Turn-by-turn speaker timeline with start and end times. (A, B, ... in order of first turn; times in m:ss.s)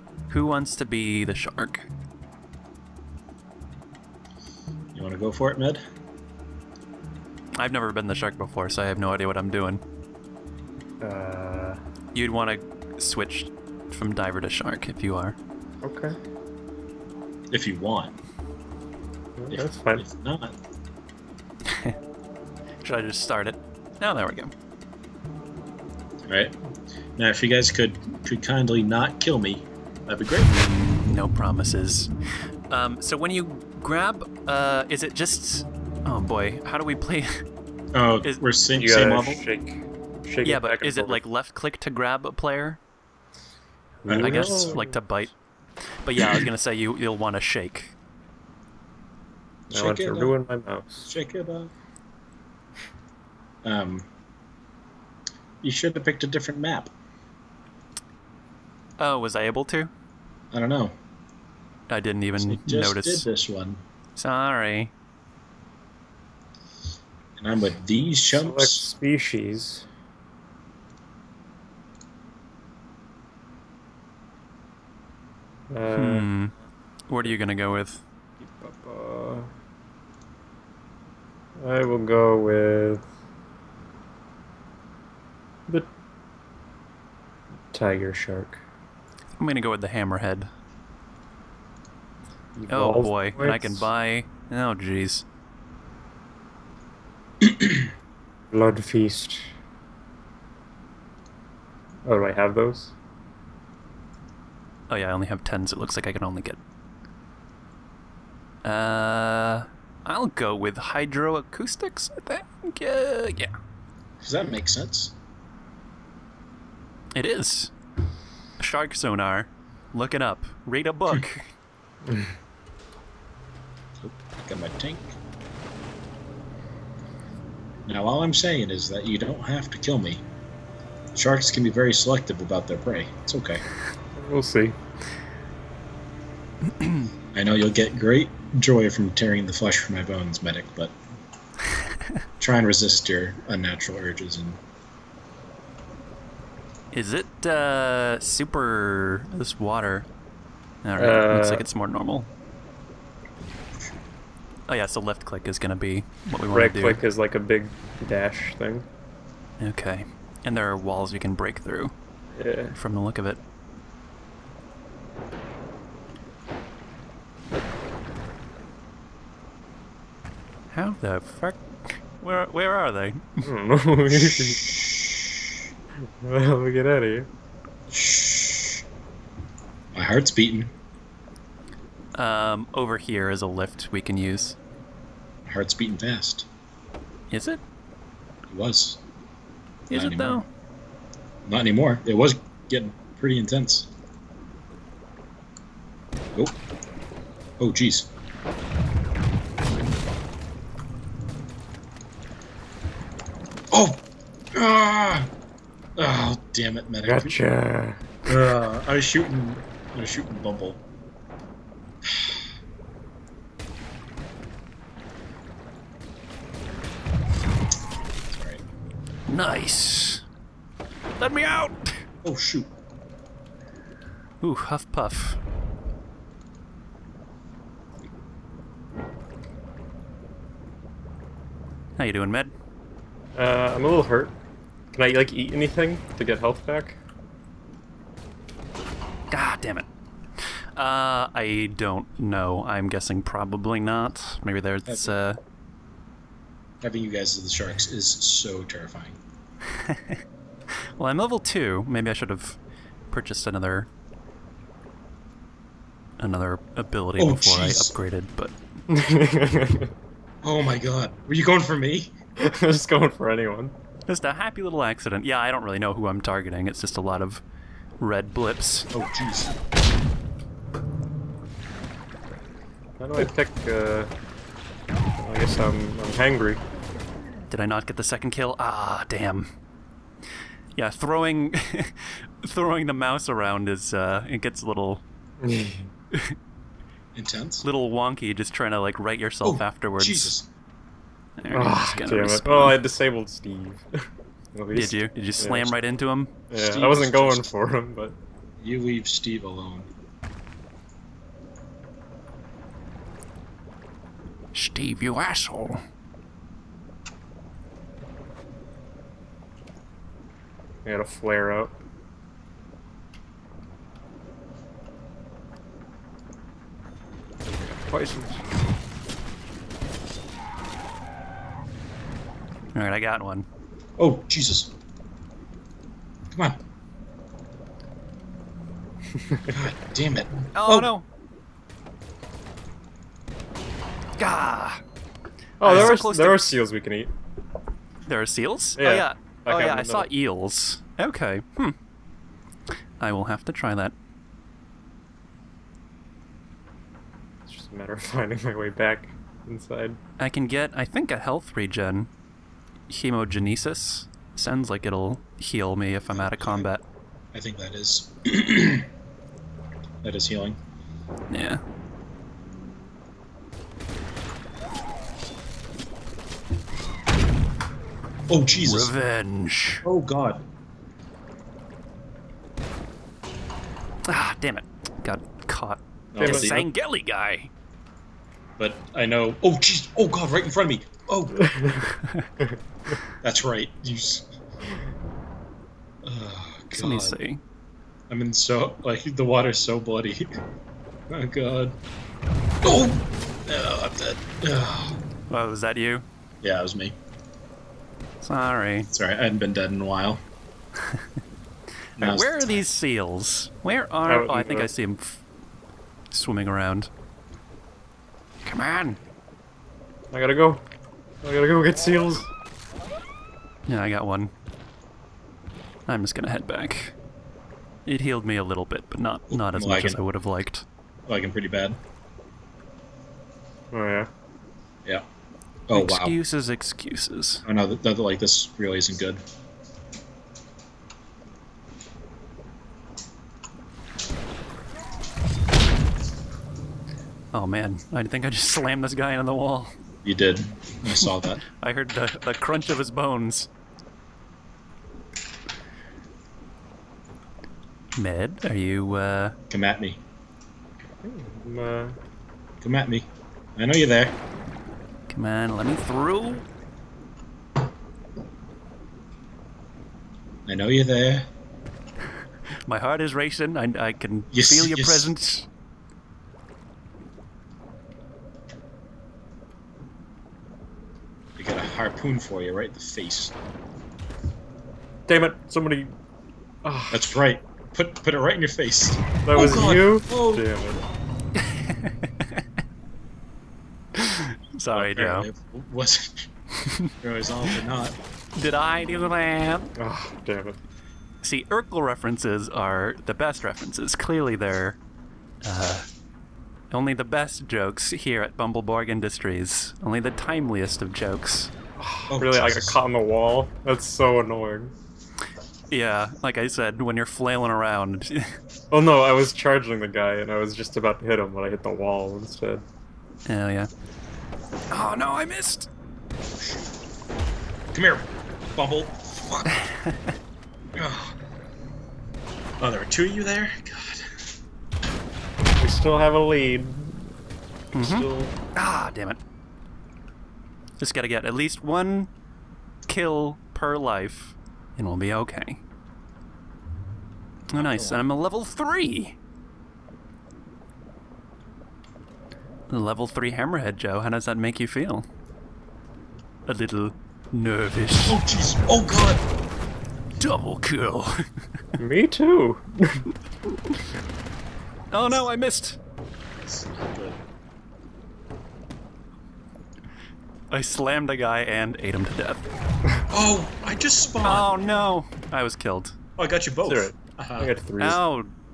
0:00.3-0:01.9 A
0:04.9-0:05.8 B
0:07.6-0:09.8 A
0:11.0-0:11.8 C
0:12.1-0:15.4 A
0:15.8-0:16.1 C
0:17.5-0:18.1 B
0:19.4-0:20.0 C
0:19.5-0:20.6 B
0:21.7-0:22.0 A
0:22.8-0:24.5 A
0:26.3-0:26.6 B
0:27.2-0:30.5 B
0:30.4-0:32.1 A
0:32.7-0:37.3 A
0:37.9-0:39.4 B
0:38.7-0:41.2 C
0:40.4-0:42.8 A
0:44.0-0:45.0 C
0:44.1-0:44.8 B
0:44.1-0:45.3 A
0:46.0-0:48.0 A
0:46.2-0:46.4 B
0:49.7-0:50.3 B
0:49.7-0:51.1 C
0:51.1-0:51.7 B
0:53.6-0:54.0 B
0:55.6-0:56.9 B
0:59.0-0:59.9 A
1:00.5-1:00.9 B
1:01.9-1:03.3 A
1:02.4-1:03.8 B
1:04.2-1:04.9 A
1:07.4-1:08.9 B
1:08.3-1:09.8 C
1:15.7-1:16.3 C
1:15.9-1:16.5 A
1:17.1-1:18.0 A
1:18.4-1:19.5 C
1:21.6-1:23.0 C
1:27.7-1:28.6 C
1:29.4-1:30.5 A
1:32.6-1:33.9 C
1:32.7-1:35.2 A
1:38.5-1:39.5 C
1:42.1-1:42.9 C
1:44.9-1:46.6 A
1:48.6-1:53.5 A
1:54.2-1:55.1 B
1:57.2-1:57.7 A
1:58.6-2:01.4 A
2:04.0-2:05.2 B
2:07.9-2:10.2 B
2:11.2-2:13.6 B
2:14.2-2:14.8 C
2:16.8-2:17.1 A
2:17.3-2:21.0 B
2:22.4-2:24.6 B
2:26.9-2:30.1 A
2:30.8-2:32.3 A
2:31.0-2:31.7 C
2:34.7-2:37.0 A
2:36.5-2:38.9 C
2:39.6-2:41.9 A
2:42.4-2:42.8 C
2:42.8-2:43.4 A
2:50.7-2:53.4 A
2:53.4-2:54.7 C
2:54.1-2:55.3 B
2:56.2-2:57.3 C
2:57.9-2:58.8 B
2:59.9-3:00.7 B
3:02.2-3:04.6 A
3:05.4-3:06.5 B
3:07.3-3:07.6 A
3:08.5-3:09.0 B
3:09.9-3:10.5 A
3:09.9-3:10.4 B
3:11.5-3:13.9 B
3:17.6-3:18.1 B
3:23.7-3:25.3 B
3:26.0-3:27.4 B
3:27.1-3:28.2 C
3:28.2-3:30.8 B
3:32.1-3:32.4 B
3:38.3-3:38.6 B
3:39.3-3:40.2 A
3:41.2-3:41.9 A
3:42.2-3:42.7 B
3:44.4-3:45.4 A
3:52.0-3:52.5 A
3:53.3-3:54.3 C
3:54.9-3:57.0 C
3:59.3-3:59.9 A
4:00.8-4:05.4 A
4:04.9-4:05.2 B
4:06.8-4:09.2 B
4:09.8-4:10.2 A
4:11.0-4:12.6 A
4:13.1-4:13.9 A
4:16.2-4:18.5 A
4:17.2-4:17.9 B
4:18.9-4:19.9 C
4:20.4-4:22.1 B
4:22.4-4:23.7 C
4:24.1-4:27.4 A
4:28.0-4:28.9 A
4:28.9-4:29.5 B
4:33.0-4:34.1 C
4:35.2-4:36.6 C
4:37.5-4:39.5 A
4:40.8-4:45.0 A
4:45.4-4:45.9 C
4:47.1-4:47.7 B
4:47.6-4:50.3 A
4:49.4-4:50.5 B
4:51.4-4:52.8 A
4:51.5-4:53.9 C
4:54.5-4:55.7 C
4:54.7-4:56.3 A
4:56.5-4:58.2 C
4:56.5-4:57.5 B
4:58.6-4:59.9 B
5:04.5-5:05.8 A
5:10.8-5:11.7 C
5:17.9-5:18.4 C
5:22.7-5:23.4 A
5:24.0-5:24.7 B
5:26.3-5:26.6 B
5:29.2-5:29.6 C
5:29.5-5:30.9 B
5:30.5-5:31.1 A
5:34.2-5:34.8 A
5:35.6-5:37.1 C
5:35.6-5:36.6 A
5:38.1-5:41.8 A
5:38.8-5:40.1 C
5:43.0-5:43.9 A
5:47.5-5:50.0 C
5:50.2-5:52.1 A
5:52.9-5:56.8 A
5:56.1-5:56.7 B
5:57.3-5:58.9 B
6:00.0-6:00.6 B
6:01.3-6:01.6 A
6:08.3-6:08.9 B
6:08.6-6:09.9 A
6:09.8-6:10.4 B
6:14.1-6:17.5 A
6:16.1-6:16.7 B
6:16.2-6:16.6 C
6:18.6-6:21.4 B
6:21.4-6:21.8 C
6:23.2-6:24.3 B
6:26.0-6:27.2 B
6:26.7-6:27.4 A
6:28.1-6:30.2 B
6:31.1-6:31.8 B
6:32.6-6:35.0 B
6:35.3-6:36.0 A
6:36.4-6:37.0 B
6:38.2-6:38.9 A
6:38.9-6:40.2 B
6:42.0-6:42.5 B
6:42.0-6:45.2 A
6:44.0-6:44.7 C
6:46.1-6:46.9 A
6:48.4-6:49.0 A
6:50.1-6:50.6 C
6:51.2-6:52.3 C
6:53.7-6:54.3 A
6:55.9-6:56.9 A
6:57.9-7:00.6 A
6:59.3-7:00.0 B
7:01.1-7:01.8 B
7:03.7-7:04.1 C
7:05.7-7:06.2 B
7:05.7-7:07.4 A
7:07.4-7:09.2 B
7:17.3-7:19.7 A
7:20.0-7:21.4 B
7:21.5-7:23.5 A
7:27.9-7:29.4 A
7:29.5-7:30.0 B
7:31.0-7:32.0 C
7:32.6-7:34.2 B
7:35.1-7:36.4 A
7:40.4-7:41.2 B
7:42.7-7:45.5 A
7:44.3-7:45.1 B
7:51.4-7:53.4 B
7:55.1-7:55.9 C
7:56.6-7:57.2 C
7:56.9-8:00.4 B
7:59.2-8:00.8 C
8:01.4-8:02.4 A
8:03.9-8:05.3 A
8:04.7-8:06.3 B
8:06.6-8:06.9 A
8:07.0-8:08.0 B
8:08.4-8:09.7 A
8:09.8-8:10.6 C
8:11.2-8:14.8 A
8:15.4-8:15.9 A
8:16.7-8:21.5 A
8:21.8-8:24.7 C
8:22.1-8:22.8 B
8:25.7-8:28.3 A
8:28.7-8:32.6 C
8:33.2-8:33.7 A
8:34.7-8:35.7 A
8:37.7-8:39.6 B
8:40.8-8:41.1 B
8:42.6-8:44.0 B
8:45.6-8:47.1 C
8:47.7-8:48.3 C
8:47.7-8:49.2 A
8:50.8-8:52.1 A
8:52.9-8:55.6 A
8:57.5-8:59.2 A
8:57.5-8:58.1 B
9:02.7-9:05.0 A
9:06.4-9:08.2 A
9:08.1-9:09.2 B
9:10.2-9:11.2 A
9:11.8-9:13.1 C
9:14.9-9:15.8 A
9:16.4-9:17.2 B
9:20.5-9:22.4 A
9:23.1-9:24.8 B
9:24.2-9:26.0 A
9:26.2-9:27.5 B
9:26.6-9:28.0 C
9:27.8-9:28.3 A